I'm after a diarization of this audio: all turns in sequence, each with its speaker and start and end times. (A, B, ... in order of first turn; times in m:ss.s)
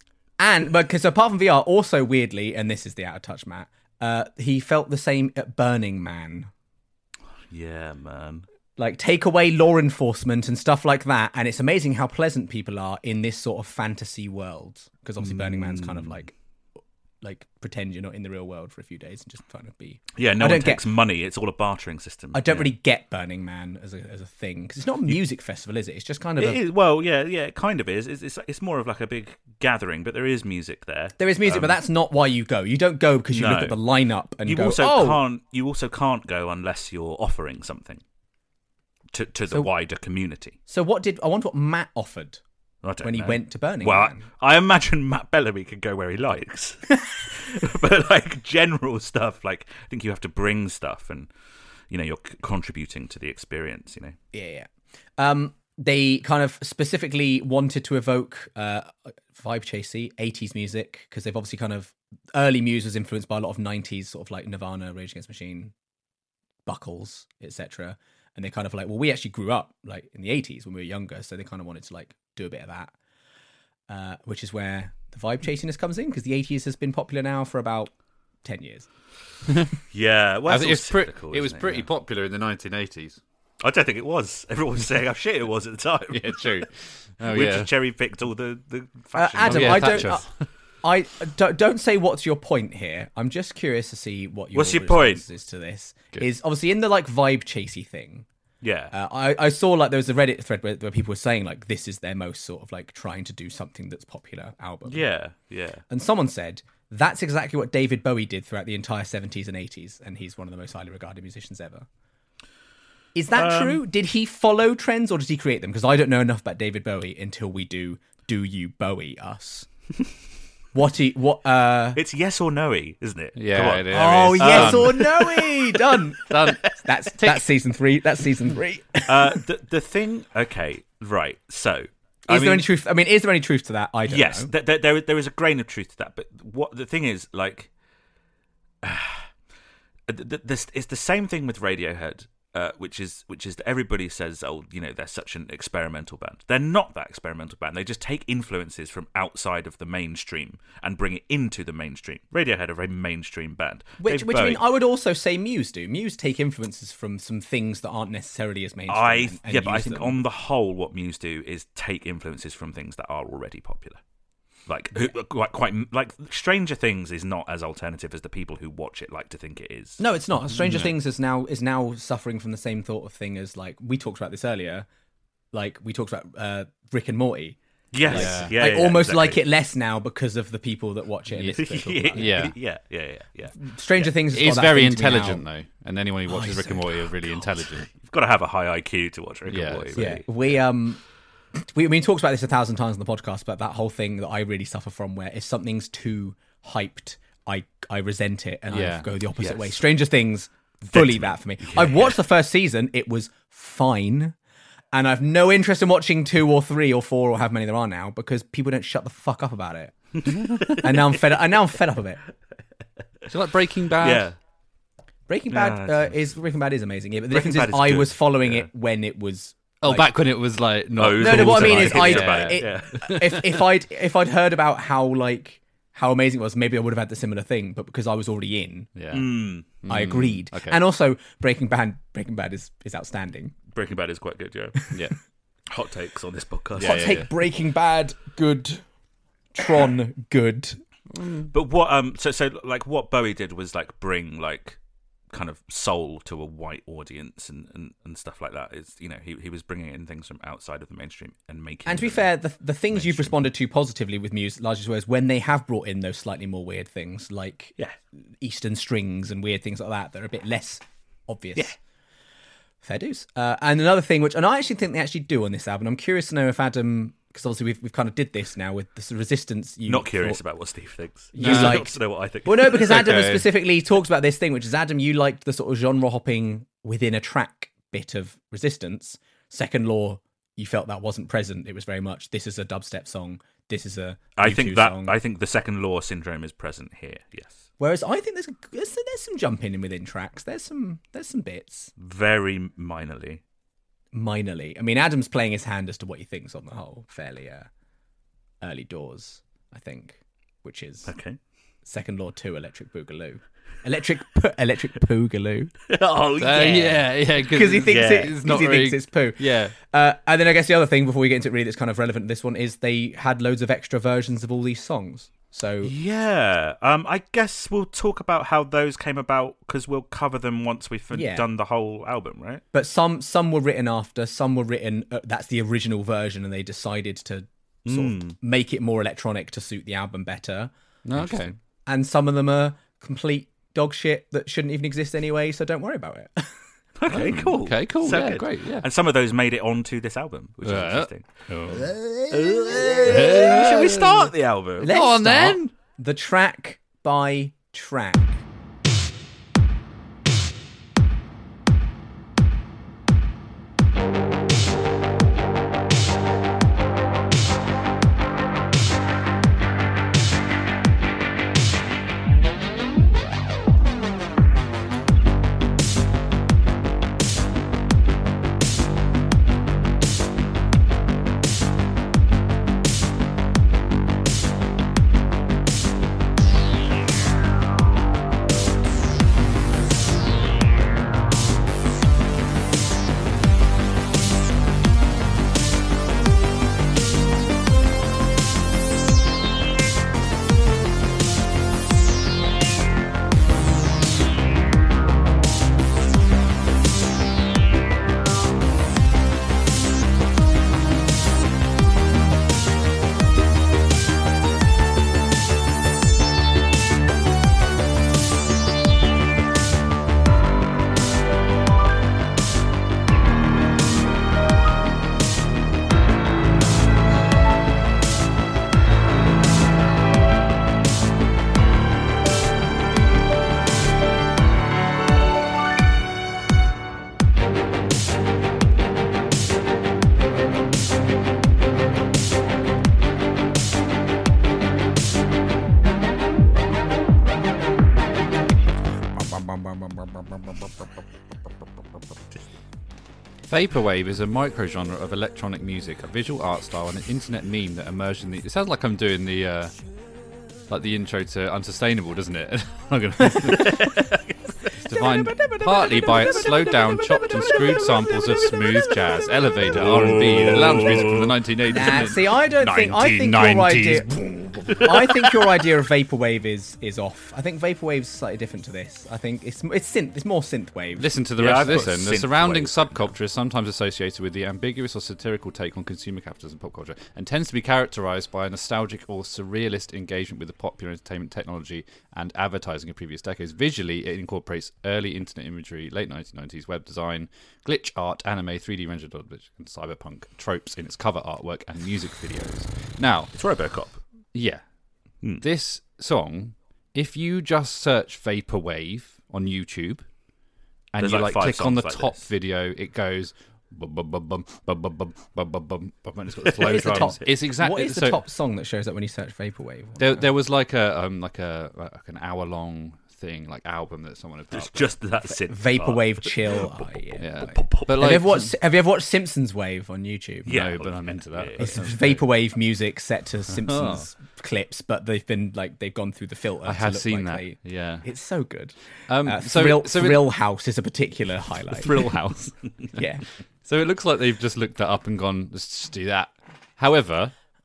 0:00.4-0:06.5 A
0:07.5-0:08.4 B
0:08.8-0:16.3 A
0:15.2-0:16.2 B
0:17.2-0:20.8 A
0:20.1-0:22.7 B
0:22.3-0:26.6 A
0:26.4-0:31.8 B
0:31.2-0:35.2 A
0:33.3-0:33.8 B
0:34.4-0:38.0 B
0:39.1-0:40.6 B
0:40.7-0:42.4 A
0:42.8-0:51.3 B
0:43.0-0:44.2 A
0:51.9-0:54.2 B
0:54.3-1:05.7 A
1:06.6-1:12.9 A
1:13.9-1:17.9 A
1:18.4-1:18.9 A
1:19.9-1:21.9 B
1:20.5-1:23.2 C
1:23.6-1:26.6 B
1:26.1-1:27.7 C
1:27.2-1:30.2 B
1:29.1-1:30.2 A
1:29.4-1:30.3 C
1:30.8-1:38.2 A
1:34.5-1:35.2 B
1:38.6-1:38.9 B
1:38.9-1:45.0 A
1:44.9-1:45.8 B
1:45.9-1:51.9 A
1:53.1-1:59.7 A
1:53.3-1:53.8 B
2:00.7-2:02.0 A
2:01.9-2:05.5 B
2:03.4-2:05.1 C
2:03.9-2:09.4 A
2:06.3-2:07.5 C
2:09.1-2:12.7 B
2:12.3-2:14.5 A
2:14.1-2:17.7 B
2:18.8-2:19.3 B
2:20.1-2:34.6 B
2:34.0-2:40.2 A
2:38.9-2:44.0 B
2:44.7-2:50.0 B
2:50.0-2:54.9 A
2:50.5-2:50.9 C
2:55.5-3:02.4 A
2:57.9-2:59.4 B
2:58.0-2:58.5 C
3:01.3-3:02.6 C
3:01.5-3:03.6 B
3:03.6-3:05.4 A
3:04.2-3:07.9 C
3:06.3-3:07.5 A
3:07.9-3:10.2 B
3:09.5-3:10.2 C
3:10.0-3:11.0 A
3:11.5-3:24.4 A
3:18.7-3:19.1 C
3:19.4-3:19.8 B
3:20.9-3:22.1 B
3:24.9-3:32.2 A
3:30.2-3:30.9 B
3:33.3-3:34.3 C
3:34.0-3:34.3 B
3:35.3-3:40.1 A
3:35.5-3:36.1 B
3:37.3-3:38.7 B
3:39.8-3:43.5 C
3:41.0-3:43.1 B
3:41.2-3:48.9 A
3:49.0-3:50.8 C
3:49.1-3:49.7 B
3:49.9-3:53.5 A
3:53.7-3:54.8 B
3:55.7-3:57.2 B
3:56.8-3:58.8 A
3:56.8-3:57.3 C
3:59.5-4:00.8 A
4:01.2-4:01.5 C
4:01.5-4:04.8 B
4:05.3-4:12.3 B
4:11.8-4:17.8 A
4:12.9-4:13.4 B
4:18.4-4:21.7 A
4:22.8-4:30.4 A
4:29.9-4:33.1 B
4:31.3-4:45.2 A
4:31.4-4:31.8 C
4:32.9-4:33.5 C
4:44.4-4:47.6 B
4:47.8-4:51.9 A
4:52.0-4:53.4 B
4:54.1-4:57.7 A
4:58.6-5:01.1 A
5:01.0-5:01.4 B
5:01.8-5:05.7 A
5:05.9-5:07.0 B
5:06.4-5:09.7 C
5:07.4-5:15.9 A
5:07.8-5:08.3 B
5:15.8-5:22.6 B
5:21.1-5:21.4 A
5:22.7-5:36.5 A
5:27.8-5:28.4 B
5:31.0-5:31.5 C
5:37.0-5:41.3 B
5:37.1-5:38.8 C
5:40.6-5:44.3 C
5:42.3-5:44.9 B
5:44.8-5:48.4 A
5:44.8-5:45.7 C
7:23.5-7:29.7 C
7:30.7-7:34.0 C
7:33.5-7:34.3 B
7:34.7-7:44.7 C
7:39.7-7:41.3 B
7:41.7-7:51.1 A
7:51.0-8:13.3 C
7:51.4-7:53.1 B
8:13.3-8:14.0 B
8:14.3-8:14.6 C
8:15.4-8:20.0 C
8:20.9-8:28.2 C
8:21.0-8:22.2 B
8:26.4-8:27.1 B
8:26.6-8:30.2 A
8:30.0-8:34.9 C
8:34.5-8:37.9 B
8:35.3-8:40.6 A
8:37.2-8:38.5 C
8:40.4-8:41.8 B
8:40.4-8:42.2 C
8:41.6-8:52.1 A
8:43.5-8:44.1 C
8:46.6-8:48.0 C
8:49.1-8:50.3 C
8:51.7-8:53.0 C
8:52.9-8:53.2 A
8:53.6-8:57.3 C